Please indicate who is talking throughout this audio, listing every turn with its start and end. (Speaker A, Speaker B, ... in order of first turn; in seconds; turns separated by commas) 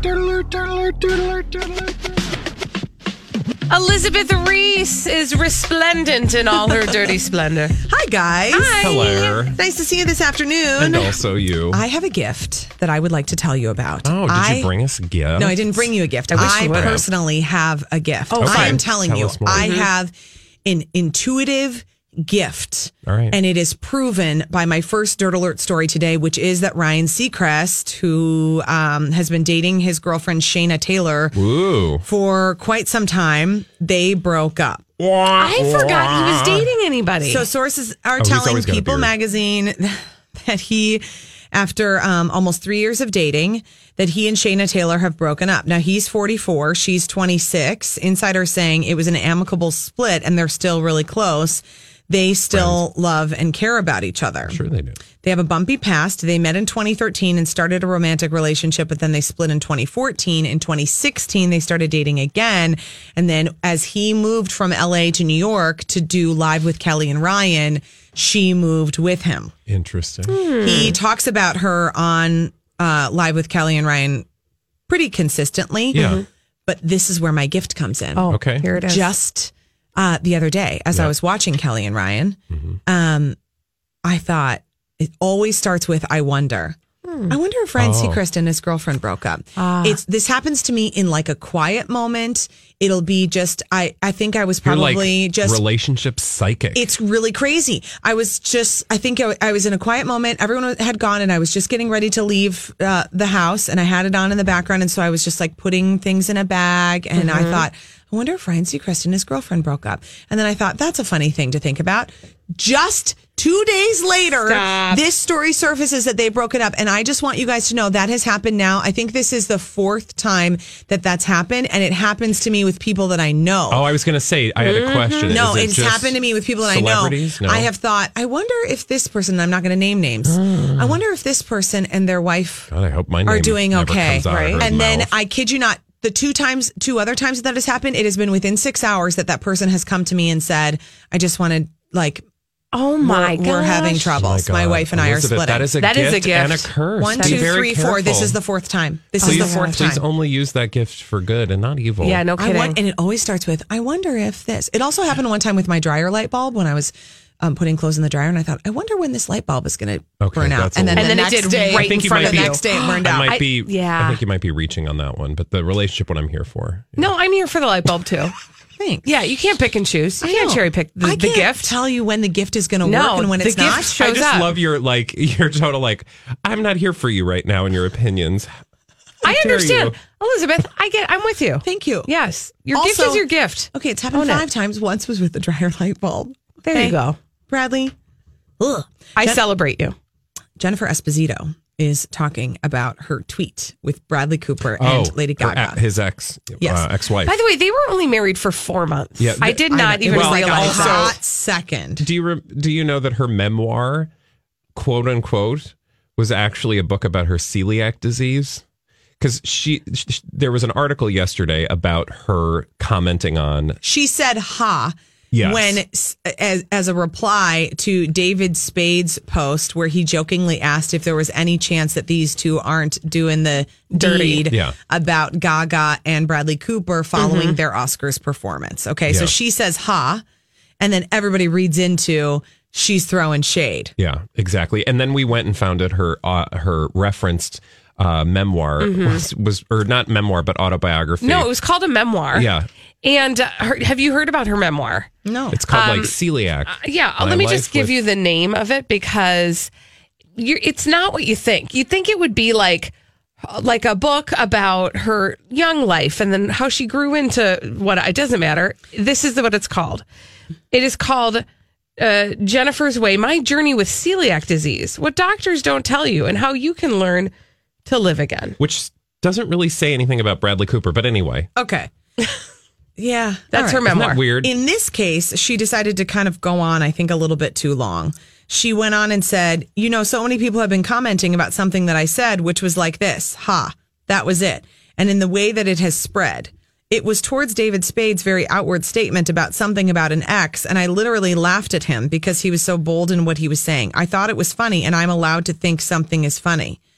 Speaker A: 3.7-7.8, Speaker B: 6.7-7.0, Speaker B: 7.8-8.9, Speaker A: 8.5-9.5, Speaker C: 8.8-9.6, Speaker B: 9.5-11.2, Speaker C: 10.8-11.8, Speaker B: 11.7-14.7, Speaker C: 14.1-17.1, Speaker B: 15.4-20.1, Speaker A: 16.3-17.1, Speaker A: 18.3-18.8, Speaker C: 18.4-19.7, Speaker A: 19.5-19.9, Speaker B: 20.6-31.4, Speaker C: 23.1-23.4, Speaker C: 31.3-32.0, Speaker B: 32.0-34.9, Speaker C: 35.0-36.7, Speaker A: 35.4-37.5, Speaker B: 37.2-54.6, Speaker C: 38.2-39.1, Speaker C: 52.5-52.9, Speaker C: 54.5-55.0, Speaker B: 55.2-69.5, Speaker C: 69.7-70.3, Speaker A: 70.3-71.0, Speaker B: 70.6-74.3, Speaker B: 74.9-83.4, Speaker C: 75.9-76.2, Speaker A: 75.9-76.3, Speaker A: 78.2-79.1, Speaker C: 78.3-78.7, Speaker C: 82.5-82.8, Speaker B: 84.0-86.8, Speaker A: 87.0-87.3, Speaker B: 87.3-95.6, Speaker C: 87.8-88.2, Speaker A: 89.6-90.0, Speaker C: 94.6-96.9, Speaker B: 96.7-123.9, Speaker A: 107.2-107.7, Speaker A: 114.5-115.0, Speaker C: 123.7-127.7, Speaker A: 124.6-125.4, Speaker B: 125.3-132.7, Speaker C: 130.3-131.0, Speaker C: 132.7-135.1, Speaker B: 133.2-142.2, Speaker A: 134.3-134.7, Speaker A: 142.7-144.2, Speaker B: 143.0-145.7, Speaker C: 144.2-148.4, Speaker A: 145.8-147.5, Speaker B: 147.0-150.1, Speaker C: 149.2-152.2, Speaker A: 149.2-149.9, Speaker A: 152.0-152.8, Speaker B: 152.4-163.3, Speaker C: 160.2-161.1, Speaker A: 160.9-164.2, Speaker C: 161.7-167.1, Speaker A: 167.0-168.4, Speaker B: 168.8-169.1, Speaker A: 169.1-171.8, Speaker B: 170.2-174.0, Speaker A: 172.8-174.6, Speaker C: 174.0-178.5, Speaker C: 179.2-179.9, Speaker A: 179.2-184.5, Speaker B: 181.6-182.1, Speaker B: 182.7-187.0, Speaker A: 186.7-187.2, Speaker B: 187.5-187.9, Speaker B: 188.6-189.4, Speaker A: 189.2-189.9, Speaker B: 190.6-195.8, Speaker C: 194.8-197.4, Speaker B: 196.6-196.9, Speaker A: 197.2-201.2, Speaker C: 199.2-201.2, Speaker B: 199.7-202.0, Speaker C: 202.0-204.1, Speaker C: 204.8-208.6, Speaker C: 209.2-213.8, Speaker B: 213.8-230.2, Speaker C: 215.3-215.8, Speaker A: 223.9-224.5, Speaker C: 224.5-224.8, Speaker A: 227.2-227.6, Speaker C: 229.1-229.3, Speaker B: 230.8-233.9, Speaker C: 234.0-241.5, Speaker A: 238.8-239.2, Speaker A: 241.2-242.5, Speaker C: 242.3-242.7, Speaker A: 243.0-245.1, Speaker B: 245.2-245.6, Speaker C: 245.5-248.0, Speaker A: 245.7-249.7, Speaker A: 250.4-260.1, Speaker A: 260.7-261.4, Speaker A: 262.0-267.3, Speaker A: 267.9-268.6, Speaker C: 268.6-271.5, Speaker B: 271.6-271.9, Speaker B: 273.0-296.8, Speaker A: 273.5-274.2, Speaker C: 273.9-274.5